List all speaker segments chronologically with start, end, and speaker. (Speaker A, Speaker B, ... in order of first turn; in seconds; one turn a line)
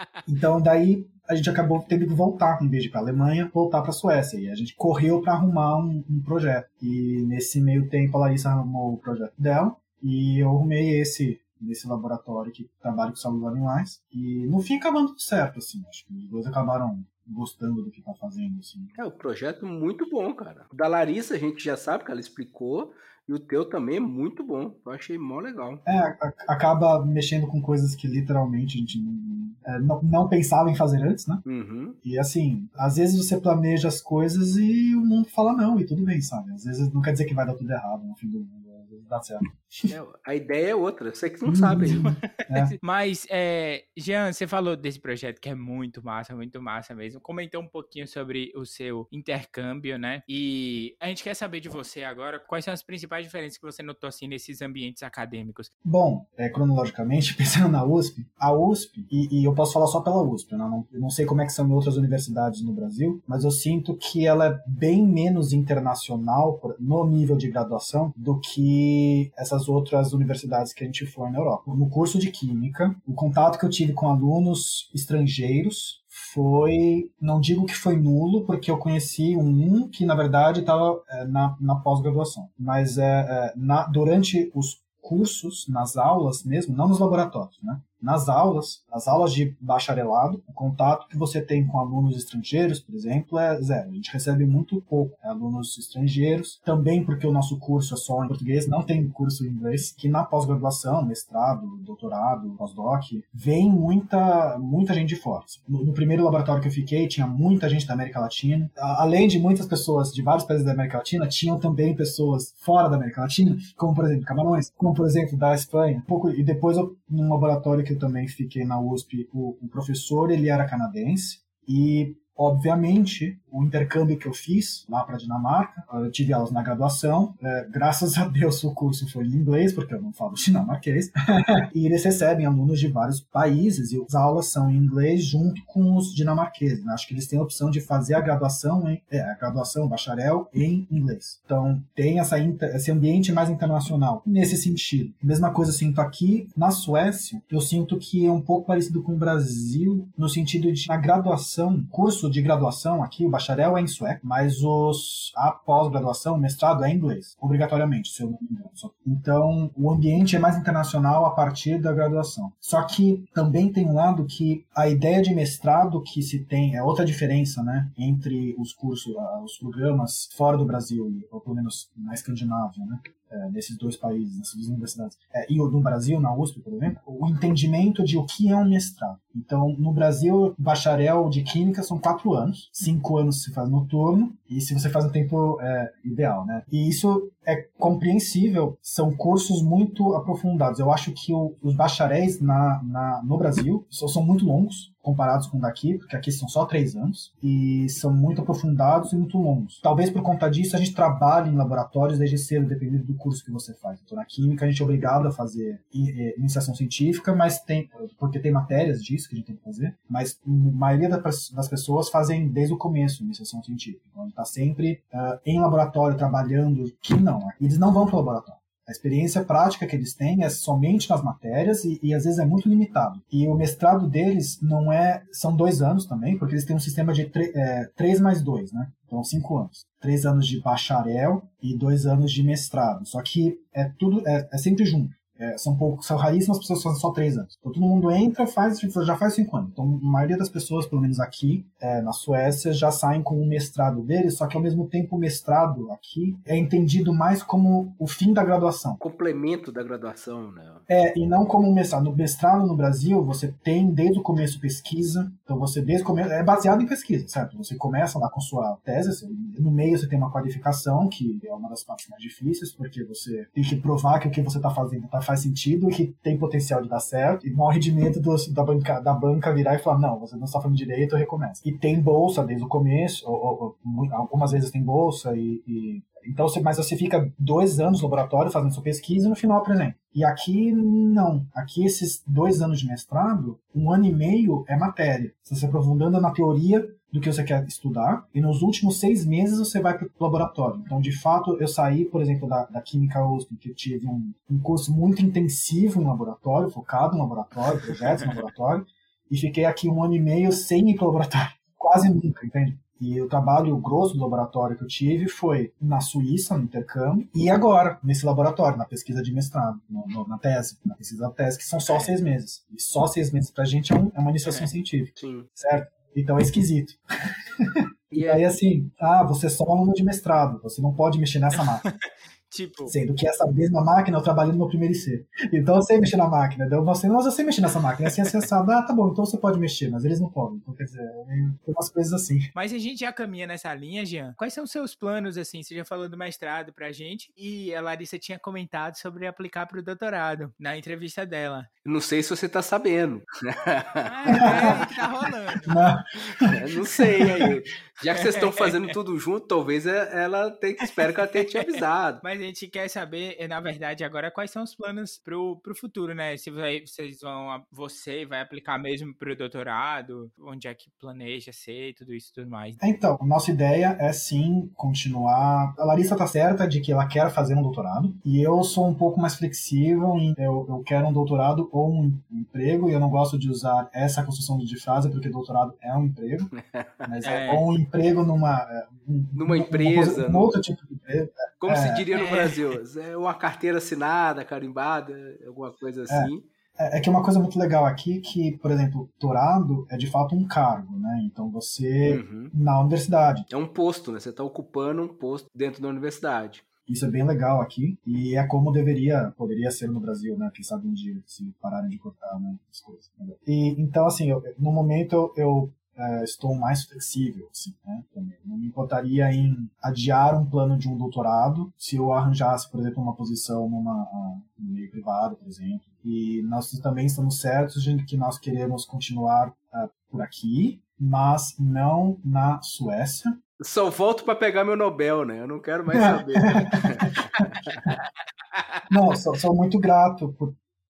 Speaker A: 0.3-18.9
Speaker B: 19.0-25.8
Speaker A: 25.9-31.4
Speaker B: 31.4-32.0
Speaker A: 32.0-39.9
Speaker B: 39.9-42.0
Speaker A: 41.5-42.8
Speaker C: 41.8-55.7
Speaker A: 55.8-249.0
Speaker B: 249.0-250.8
Speaker A: 250.9-317.0
Speaker C: 314.4-314.7
Speaker B: 315.2-315.5
Speaker A: 317.6-321.9
Speaker B: 318.1-318.4
Speaker C: 322.5-322.9
Speaker A: 322.9-332.5
Speaker C: 332.5-341.7
Speaker B: 341.9-344.9
Speaker C: 344.0-345.7
Speaker A: 344.4-344.8
Speaker A: 345.7-347.6
Speaker B: 346.4-352.2
Speaker C: 348.1-348.9
Speaker C: 350.8-362.8
Speaker A: 362.8-376.5
Speaker B: 376.5-377.1
Speaker A: 377.0-382.1
Speaker C: 377.2-377.6
Speaker B: 379.4-380.5
Speaker B: 381.6-386.4
Speaker C: 382.1-382.7
Speaker A: 386.1-393.5
Speaker B: 392.0-392.5
Speaker B: 393.5-396.6
Speaker A: 396.9-423.4
Speaker B: 423.6-427.1
Speaker A: 425.9-427.9
Speaker A: 428.9-430.6